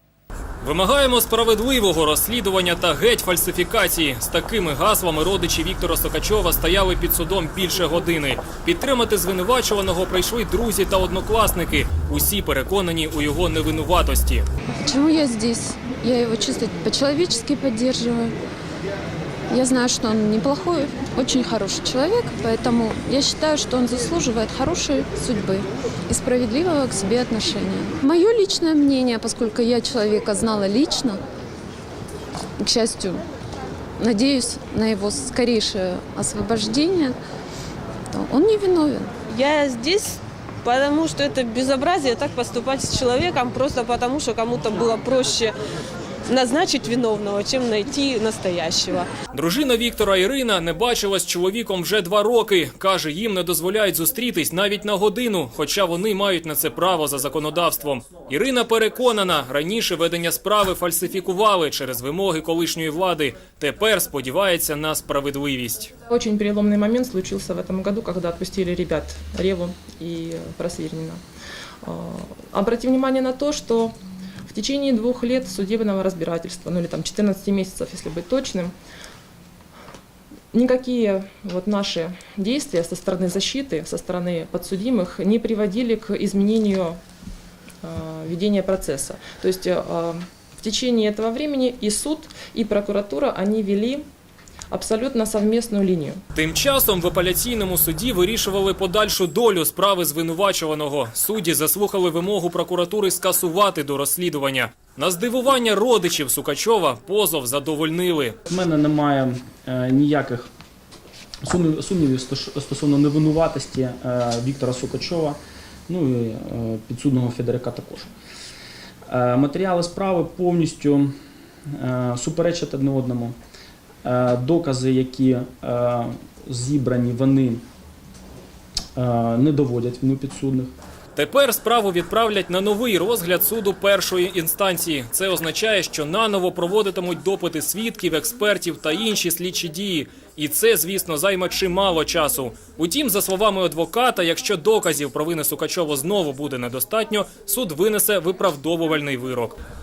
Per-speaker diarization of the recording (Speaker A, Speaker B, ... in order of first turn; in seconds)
Speaker A: 0.6-14.5, 49.3-65.9, 96.3-108.4, 131.2-149.6
Speaker B: 14.8-18.4, 19.5-31.2, 32.6-33.2, 34.0-37.2, 38.1-39.2
Speaker C: 39.3-45.6, 46.3-49.1
Speaker D: 66.1-71.2, 71.8-78.7, 80.5-87.0, 87.8-94.1, 94.7-96.2
Speaker E: 108.5-110.5, 111.4-118.1, 119.1-121.1, 121.7-123.4, 124.0-127.6, 128.9-130.7